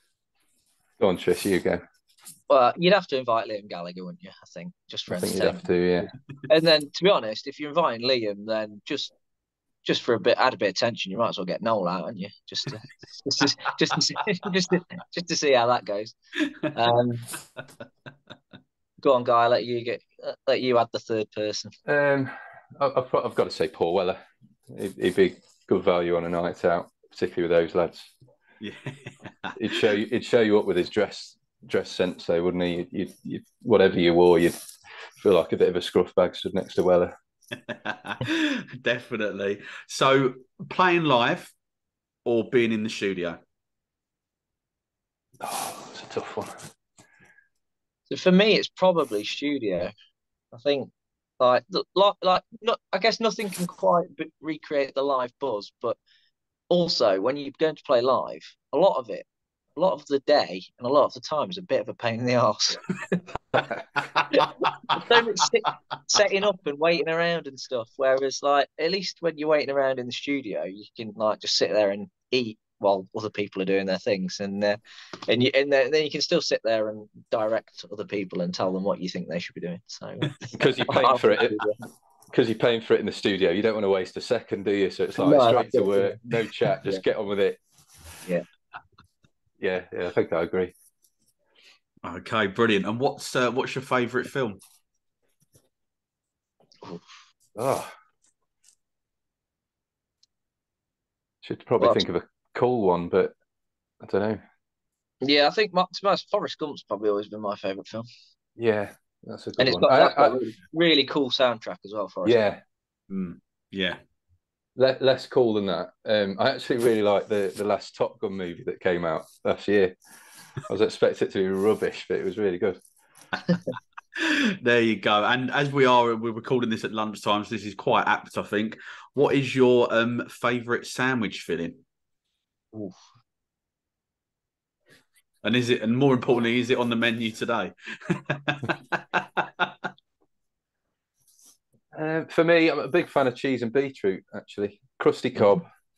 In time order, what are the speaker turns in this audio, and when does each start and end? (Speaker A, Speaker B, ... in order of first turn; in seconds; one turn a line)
Speaker A: 1.0-1.8
Speaker B: 2.5-5.6
Speaker A: 5.1-6.1
Speaker B: 6.5-9.1
Speaker B: 9.8-16.1
Speaker C: 16.4-16.7
Speaker B: 16.7-17.3
Speaker B: 19.0-21.8
Speaker A: 21.9-24.2
Speaker A: 24.7-28.1
Speaker C: 28.6-29.6
Speaker A: 29.6-34.6
Speaker A: 35.2-37.1
Speaker C: 37.7-41.5
Speaker C: 42.2-43.4
Speaker A: 45.4-46.7
Speaker B: 48.1-49.9
Speaker B: 50.5-56.0
Speaker B: 56.7-63.6
Speaker C: 64.2-64.5
Speaker B: 64.2-81.8
Speaker A: 80.5-81.6
Speaker A: 82.3-87.6
Speaker B: 85.2-87.0
Speaker A: 89.6-90.7
Speaker C: 92.0-94.6
Speaker A: 97.6-98.0
Speaker A: 101.4-103.3
Speaker A: 104.0-104.4
Speaker B: 105.2-108.1
Speaker A: 108.6-110.4
Speaker B: 109.6-112.5
Speaker A: 112.2-112.6
Speaker C: 113.1-114.0
Speaker A: 114.8-119.9
Speaker A: 120.7-122.8
Speaker C: 124.2-131.8
Speaker C: 135.4-139.9
Speaker A: 141.9-145.7